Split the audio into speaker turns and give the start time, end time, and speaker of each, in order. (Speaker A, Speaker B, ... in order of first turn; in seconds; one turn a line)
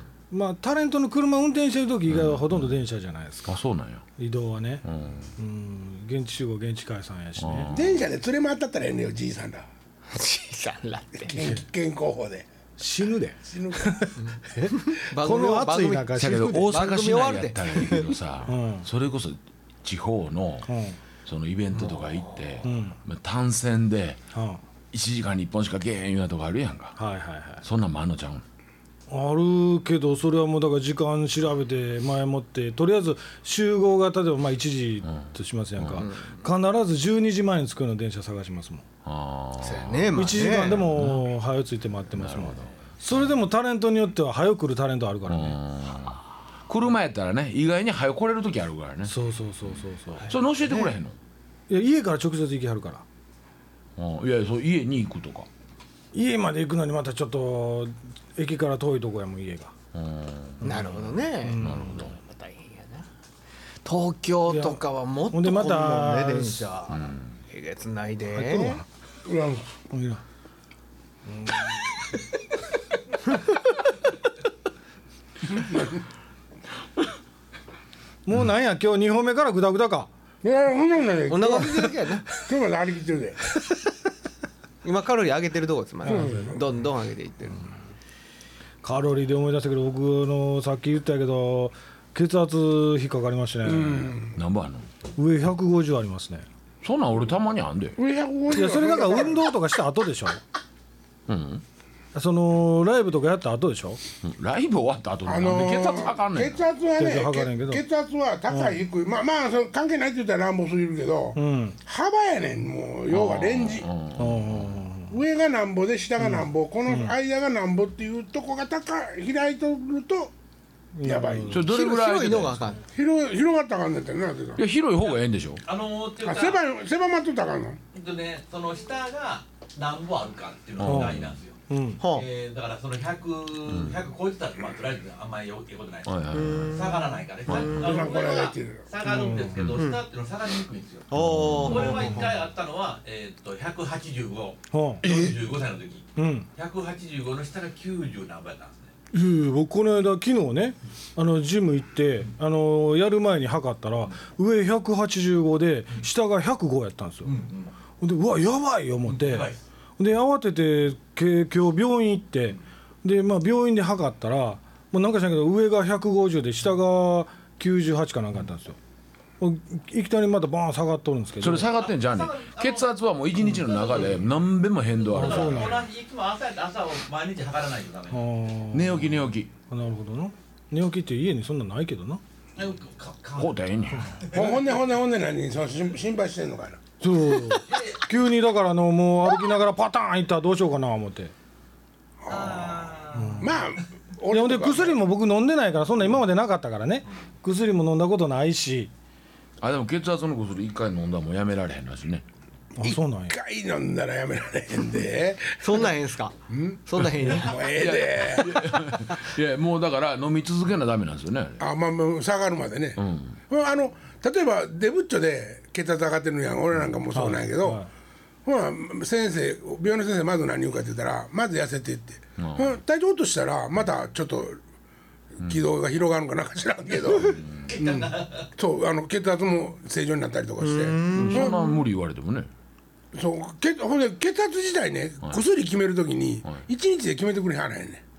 Speaker A: 0.3-3.6
Speaker B: 2.1-2.8
Speaker B: 3.5-4.0
Speaker A: 4.2-4.8
Speaker B: 4.8-5.3
Speaker A: 5.4-7.7
Speaker B: 7.4-8.0
Speaker C: 7.7-9.7
Speaker D: 10.1-11.5
Speaker C: 11.3-12.5
Speaker A: 12.8-16.7
Speaker C: 13.4-14.0
Speaker D: 14.2-18.1
Speaker B: 16.1-20.7
Speaker A: 18.5-18.9
Speaker A: 20.7-21.0
Speaker B: 21.3-24.2
Speaker D: 21.8-22.6
Speaker A: 22.6-23.0
Speaker A: 24.3-24.6
Speaker B: 24.9-27.0
Speaker A: 27.0-27.6
Speaker B: 27.6-28.4
Speaker A: 29.1-38.9
Speaker B: 35.0-36.1
Speaker D: 36.1-36.4
Speaker B: 39.0-41.2
Speaker D: 39.6-40.8
Speaker A: 40.1-45.6
Speaker B: 42.2-42.7
Speaker B: 45.3-51.2
Speaker A: 49.1-50.3
Speaker D: 50.3-50.9
Speaker A: 51.7-53.0
Speaker B: 54.0-55.5
Speaker A: 56.1-59.7
Speaker B: 59.9-62.2
Speaker A: 60.6-60.9
Speaker D: 60.6-63.1
Speaker A: 61.4-62.1
Speaker D: 63.9-68.8
Speaker A: 64.5-66.7
Speaker B: 66.9-67.4
Speaker A: 68.3-68.8
Speaker C: 69.2-69.7
Speaker A: 69.9-70.2
Speaker A: 71.3-71.6
Speaker C: 75.5-76.0
Speaker A: 78.3-80.1
Speaker C: 80.4-83.4
Speaker D: 81.3-82.3
Speaker D: 84.8-87.7
Speaker C: 86.0-86.6
Speaker A: 86.1-86.5
Speaker A: 88.8-94.2
Speaker C: 93.6-94.3
Speaker B: 94.3-94.9
Speaker A: 95.2-96.5
Speaker B: 96.8-98.0
Speaker C: 98.0-99.4
Speaker A: 98.5-100.4
Speaker B: 101.3-101.6
Speaker A: 102.1-104.0
Speaker B: 104.2-106.6
Speaker C: 105.3-113.9
Speaker A: 107.0-107.8
Speaker A: 111.4-111.8
Speaker B: 113.1-114.8
Speaker A: 114.2-115.1
Speaker C: 115.1-120.3
Speaker A: 116.2-117.1
Speaker A: 121.0-121.6
Speaker C: 121.0-121.7
Speaker B: 121.5-122.6
Speaker D: 121.7-122.8
Speaker C: 122.9-124.6
Speaker B: 124.6-125.6
Speaker E: 125.0-126.6
Speaker C: 126.2-127.8
Speaker E: 127.9-148.9
Speaker B: 130.8-131.4
Speaker A: 130.8-132.0
Speaker D: 132.0-132.3
Speaker B: 133.7-134.0
Speaker B: 136.1-136.9
Speaker D: 136.3-138.1
Speaker B: 137.5-137.8
Speaker C: 137.8-138.8
Speaker A: 139.0-139.7
Speaker B: 139.6-139.8
Speaker D: 139.8-140.0
Speaker B: 141.1-142.1
Speaker D: 141.1-142.3
Speaker A: 144.7-145.0
Speaker D: 145.0-145.3
Speaker A: 146.2-146.5
Speaker A: 149.1-157.3
Speaker E: 157.2-157.7
Speaker A: 158.0-168.8
Speaker E: 159.1-159.6
Speaker A: 169.4-171.7
Speaker B: 171.4-175.8
Speaker E: 171.7-172.9
Speaker E: 173.4-174.2
Speaker E: 175.0-178.3
Speaker A: 175.1-175.9
Speaker A: 178.1-182.2
Speaker B: 178.7-179.5
Speaker E: 182.6-184.5
Speaker B: 183.4-184.3
Speaker C: 184.3-186.8
Speaker A: 187.0-191.3
Speaker E: 187.7-188.0
Speaker C: 192.2-195.0
Speaker E: 192.3-193.6
Speaker A: 193.1-193.5
Speaker A: 194.3-198.9
Speaker B: 199.6-202.2
Speaker A: 202.8-203.4
Speaker C: 202.8-205.9
Speaker D: 205.6-206.4
Speaker C: 206.5-208.7
Speaker D: 206.9-207.7
Speaker B: 207.7-211.6
Speaker C: 211.6-217.8
Speaker B: 213.0-213.4
Speaker A: 217.1-217.9
Speaker C: 218.4-224.6
Speaker B: 222.4-222.8
Speaker C: 225.4-231.6
Speaker B: 227.2-227.7
Speaker E: 227.7-228.5
Speaker D: 230.6-231.8
Speaker B: 231.1-232.5
Speaker C: 233.1-238.0